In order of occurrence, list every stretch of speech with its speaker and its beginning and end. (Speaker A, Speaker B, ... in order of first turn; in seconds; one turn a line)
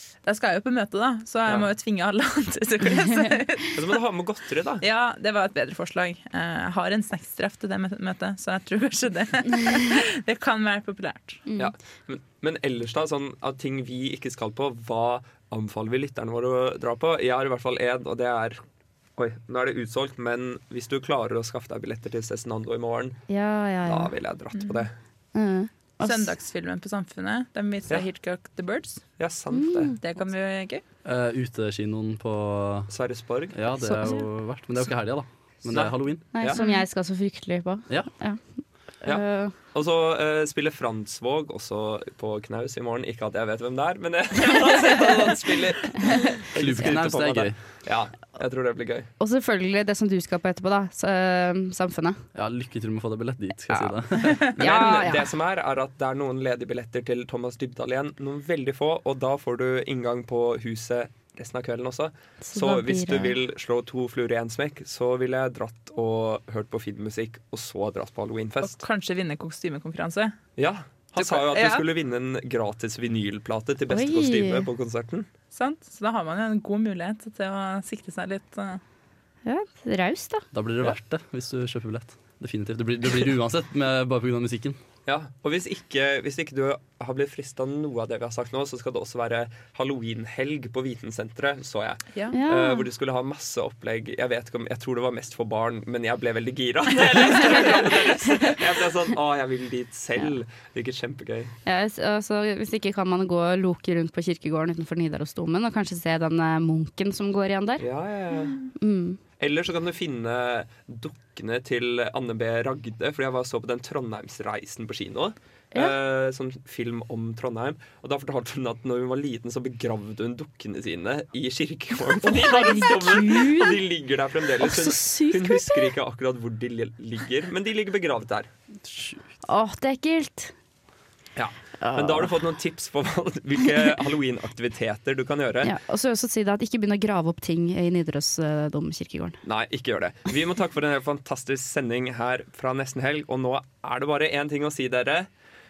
Speaker A: 0.3-3.9
Speaker B: 3.7-4.8
Speaker A: 4.8-11.4
Speaker B: 11.6-18.6
Speaker B: 19.2-23.2
Speaker C: 23.3-24.1
Speaker B: 23.9-24.9
Speaker A: 24.6-24.9
Speaker C: 25.4-26.3
Speaker A: 26.0-29.0
Speaker B: 29.2-30.0
Speaker C: 29.5-29.9
Speaker A: 30.0-30.8
Speaker D: 31.1-32.9
Speaker B: 32.9-33.6
Speaker D: 33.5-36.2
Speaker C: 33.8-34.1
Speaker B: 35.7-36.6
Speaker C: 36.3-38.4
Speaker C: 39.0-39.5
Speaker B: 39.0-49.1
Speaker D: 46.5-47.6
Speaker C: 49.2-52.2
Speaker D: 52.4-54.4
Speaker C: 53.7-55.3
Speaker B: 54.6-68.8
Speaker C: 62.5-63.4
Speaker A: 68.6-70.4
Speaker B: 70.6-75.3
Speaker A: 71.2-71.9
Speaker C: 73.9-74.7
Speaker A: 75.5-78.8
Speaker C: 79.5-80.5
Speaker D: 80.5-84.8
Speaker B: 85.1-101.5
Speaker C: 92.3-92.9
Speaker C: 101.7-107.8
Speaker B: 107.8-108.6
Speaker C: 108.8-109.2
Speaker B: 109.4-128.5
Speaker C: 122.2-123.8
Speaker C: 124.6-125.9
Speaker D: 128.8-129.2
Speaker C: 129.5-130.5
Speaker B: 131.4-135.7
Speaker C: 131.8-132.3
Speaker C: 135.6-139.4
Speaker B: 139.4-145.3